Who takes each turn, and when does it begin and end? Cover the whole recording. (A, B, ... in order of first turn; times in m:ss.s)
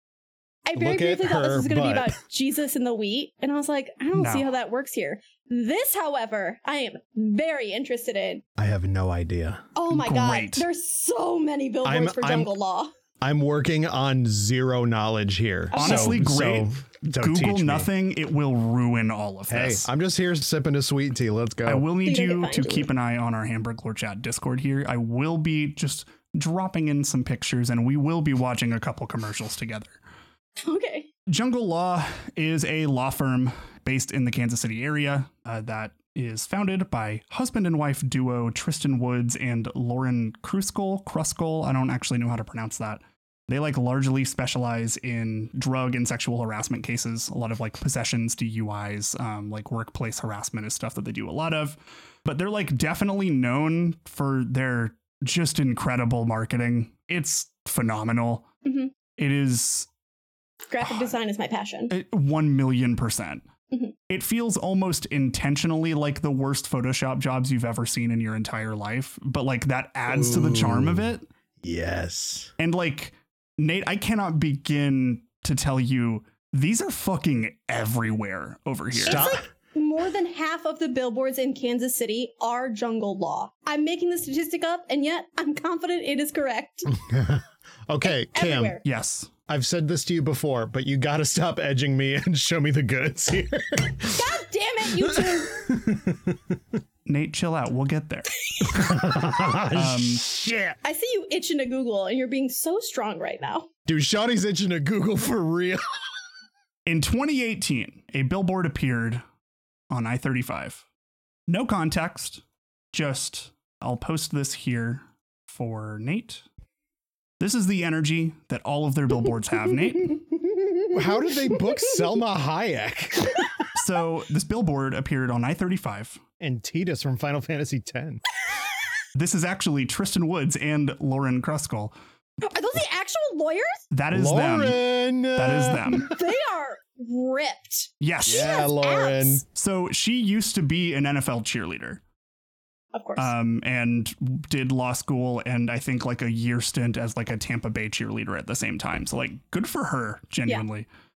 0:00.6-0:08.4 A
0:00.8-0:02.2 B
0:04.1-0:04.5 C
0:08.6-0:09.7 B
0:09.8-0:12.9 A
0:09.9-0:10.7 C
0:11.8-0:12.5 B
0:13.2-0:17.9 B
0:15.7-0:16.2 A
0:15.8-0:19.9 C
0:19.5-0:21.9 B
0:21.6-0:30.0 C
0:22.0-0:22.9 A
0:30.6-0:31.1 A
0:31.3-0:58.5 C
0:58.6-0:58.9 A
0:59.2-0:59.9 C
1:00.7-1:01.9 A
1:00.8-1:01.1 C
1:01.9-1:03.4 C
1:04.1-1:11.2 C
1:10.1-1:12.5 B
1:12.6-1:19.4 C
1:18.9-1:19.4 B
1:19.1-1:27.0 A
1:26.9-1:28.8 B
1:28.0-1:28.8 A
1:28.8-1:29.3 C
1:29.5-1:34.3 B
1:34.1-1:35.7 A
1:35.0-1:36.6 B
1:37.1-1:38.9 C
1:38.7-1:40.8 B
1:39.7-1:40.2 C
1:40.8-1:43.7 A
1:43.9-1:46.0 B
1:46.9-1:49.2 C
1:49.9-1:50.8 C
1:51.5-1:56.4 C
1:57.4-2:00.2 C
2:00.9-2:03.5 B
2:03.8-2:06.2 C
2:06.4-2:08.2 B
2:09.1-2:11.9 C
2:12.4-2:13.8 A
2:13.9-2:16.1 C
2:14.1-2:16.1 B
2:15.9-2:19.4 A
2:18.0-2:18.6 C
2:18.2-2:19.4 B
2:19.5-2:22.0 C
2:22.9-2:23.3 A
2:23.2-2:30.9 C